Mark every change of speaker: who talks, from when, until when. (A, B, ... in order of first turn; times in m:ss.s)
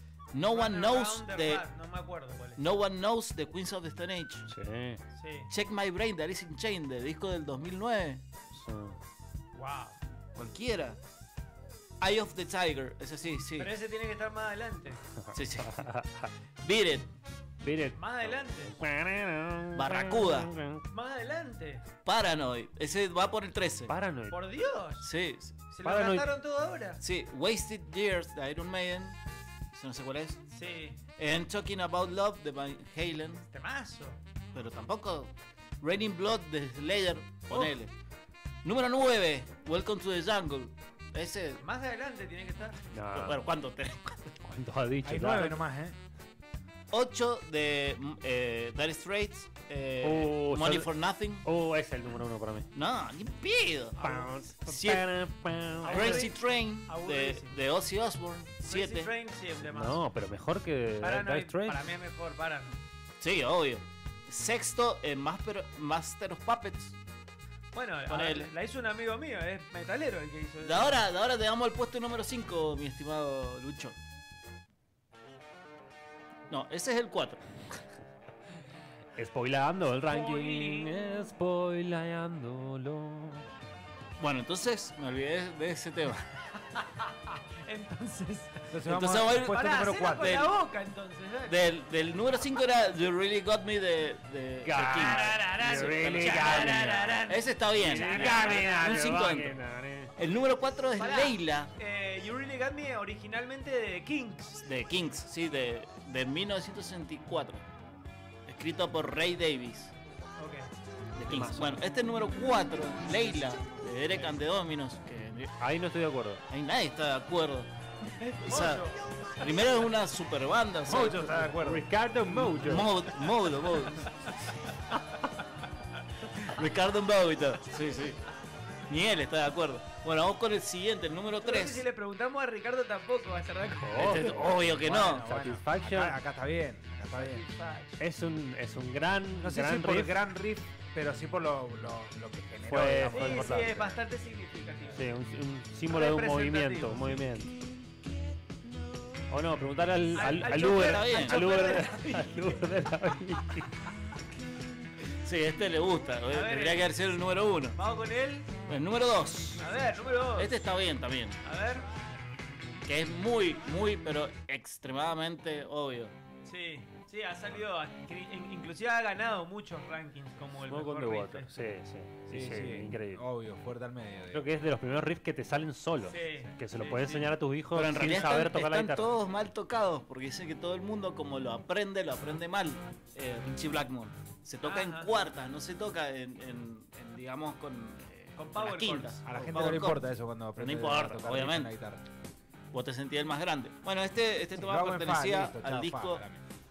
0:00.3-0:01.6 A
0:00.5-0:02.6 B
0:02.6-0:04.5 A
0:04.5-0:05.0 C
0:05.2-0:05.5 B
0:05.5-0:08.2 A
0:08.5-0:09.0 C
0:09.5-0:10.0 B
0:10.4-0:11.0 A
0:12.0-0:13.7 A
0:13.6-0:15.0 B
0:15.2-0:16.3 C
0:15.3-0:15.8 A
0:16.6-0:17.1 A
0:17.6-0:18.0 C
0:18.0-0:18.7 B
0:18.6-0:20.8 C
0:19.8-0:20.5 A
0:20.9-0:21.8 B
0:22.0-0:23.9 A
0:23.9-0:24.4 C
0:24.3-0:25.1 B
0:25.0-0:25.6 A
0:25.7-0:27.0 B
0:25.8-0:26.3 C
0:27.0-0:29.2 A
0:29.7-0:30.4 A
0:30.5-0:31.0 B
0:31.2-0:33.4 A
0:33.5-0:34.2 B
0:34.5-0:37.9 A
0:37.5-0:37.8 B
0:38.6-0:41.6 A
0:41.6-0:42.8 B
0:42.9-0:43.4 C
0:43.1-0:44.4 A
0:44.4-0:45.6 C
0:45.0-0:46.0 D
0:46.9-0:51.5 A
0:50.0-0:50.9 C
0:51.4-0:52.7 C
0:52.7-0:54.0 A
0:54.0-0:54.3 B
0:54.0-0:56.2 C
0:54.6-0:55.0 A
0:55.8-0:57.6 B
0:55.9-0:59.1 A
0:58.6-1:00.0 B
0:59.7-1:01.8 C
1:01.0-1:02.8 B
1:03.2-1:07.0 A
1:07.7-1:11.0 B
1:08.1-1:08.5 A
1:10.6-1:14.0 A
1:16.5-1:17.8 A
1:19.2-1:23.5 C
1:20.1-1:21.3 B
1:24.2-1:26.3 A
1:26.8-1:28.8 B
1:28.7-1:30.4 D
1:28.9-1:29.6 A
1:29.3-1:31.6 B
1:30.1-1:30.5 A
1:31.5-1:39.6 A
1:34.6-1:36.9 C
1:34.8-1:38.7 B
1:37.8-1:40.1 C
1:40.2-1:41.7 A
1:41.0-1:44.6 B
1:44.6-1:47.6 A
1:48.5-1:49.9 A
1:50.4-1:50.7 B
1:51.2-1:55.6 A
1:51.3-1:51.7 C
1:55.6-1:56.4 C
1:56.5-1:57.7 A
1:58.2-1:59.2 B
1:58.4-1:58.8 A
1:59.4-2:01.5 A
2:00.9-2:01.9 D
2:01.3-2:02.9 C
2:02.4-2:04.2 A
2:06.3-2:08.2 A
2:08.9-2:11.8 A
2:11.4-2:14.3 B
2:13.8-2:16.2 C
2:14.0-2:15.2 A
2:14.8-2:17.5 D
2:17.1-2:18.0 B
2:18.0-2:20.2 C
2:19.4-2:24.0 D
2:22.7-2:23.8 C
2:23.0-2:25.0 B
2:24.9-2:27.5 C
2:25.9-2:27.2 B
2:29.3-2:33.7 C
2:30.1-2:32.7 B
2:30.5-2:31.9 A
2:35.2-2:37.8 A
2:36.3-2:36.9 B
2:37.8-2:38.5 B
2:38.6-2:39.7 A
2:39.6-2:40.6 B
2:40.4-2:41.4 A
2:41.4-2:41.9 B
2:42.8-2:46.1 A
2:46.5-2:51.5 B
2:50.7-2:53.2 C
2:52.3-2:54.5 D
2:54.3-2:59.1 C
2:56.1-2:57.3 B
2:57.7-3:11.7 A
3:04.6-3:05.1 B
3:08.4-3:09.2 B
3:09.2-3:12.1 D
3:12.7-3:16.2 A
3:14.6-3:16.4 D